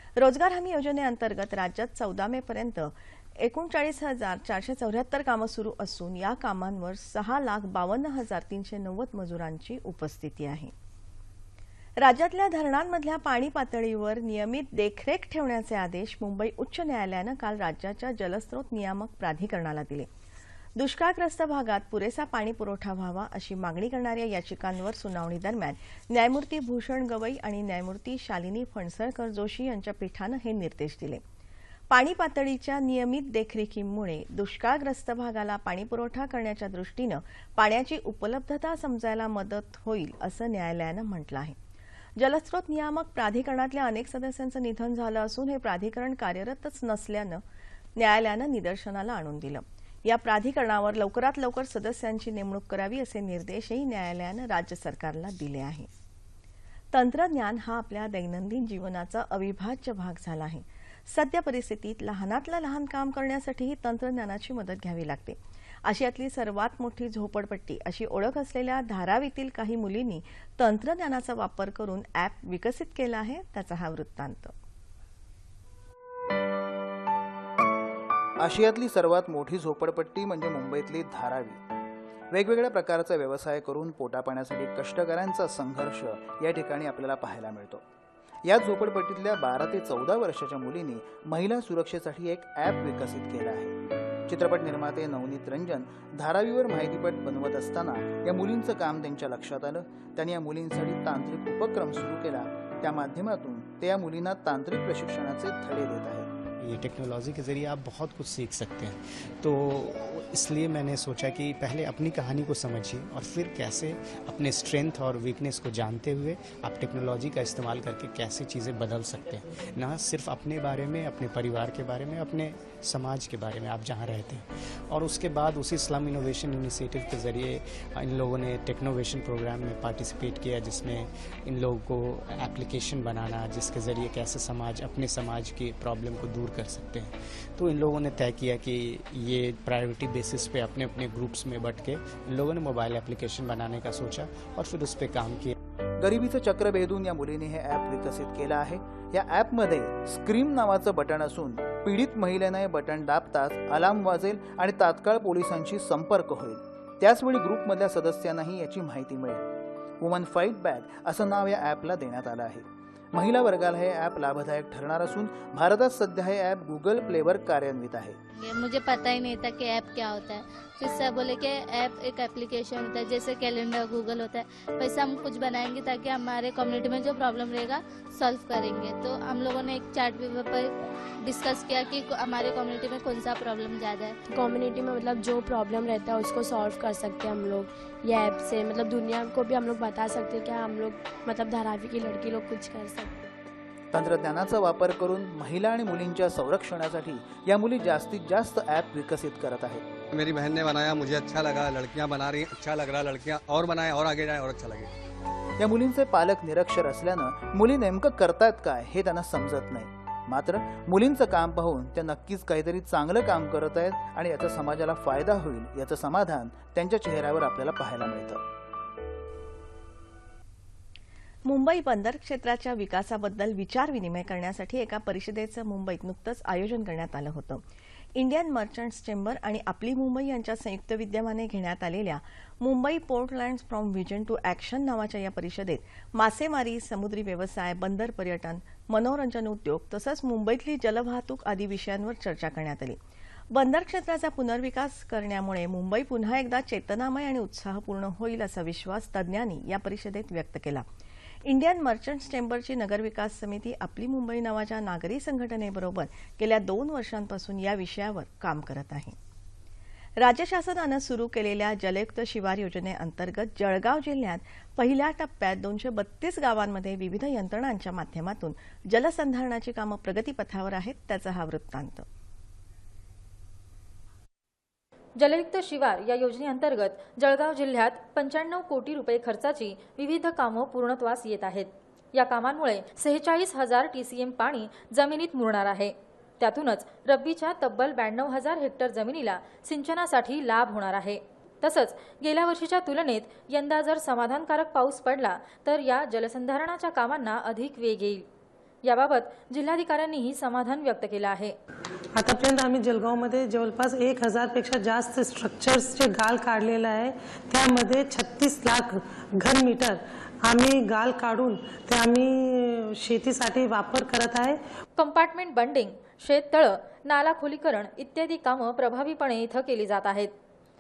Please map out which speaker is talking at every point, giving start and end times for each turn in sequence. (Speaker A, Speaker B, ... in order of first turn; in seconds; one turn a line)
Speaker A: 0.2-10.7
Speaker A: 12.0-20.1
Speaker A: 20.8-31.2
Speaker A: 31.9-41.6
Speaker A: 42.2-47.4
Speaker A: 48.0-55.9
Speaker A: 56.9-74.5
Speaker B: 78.4-81.6
Speaker B: 82.3-87.8
Speaker B: 88.5-93.7
Speaker B: 94.3-106.3
Speaker C: 106.7-145.5
Speaker B: 146.0-159.4
Speaker B: 160.0-168.2
Speaker D: 168.4-180.7
Speaker D: 181.2-184.2
Speaker E: 184.3-193.2
Speaker B: 193.9-199.8
Speaker F: 200.1-204.9
Speaker B: 205.6-218.4
Speaker A: 221.5-227.6
Speaker A: 228.2-243.0
Speaker A: 243.5-250.9
Speaker A: 251.4-259.2
Speaker A: 260.2-272.1
Speaker G: 275.2-298.2
Speaker G: 298.8-301.6
Speaker H: 302.1-314.6
Speaker G: 315.0-320.3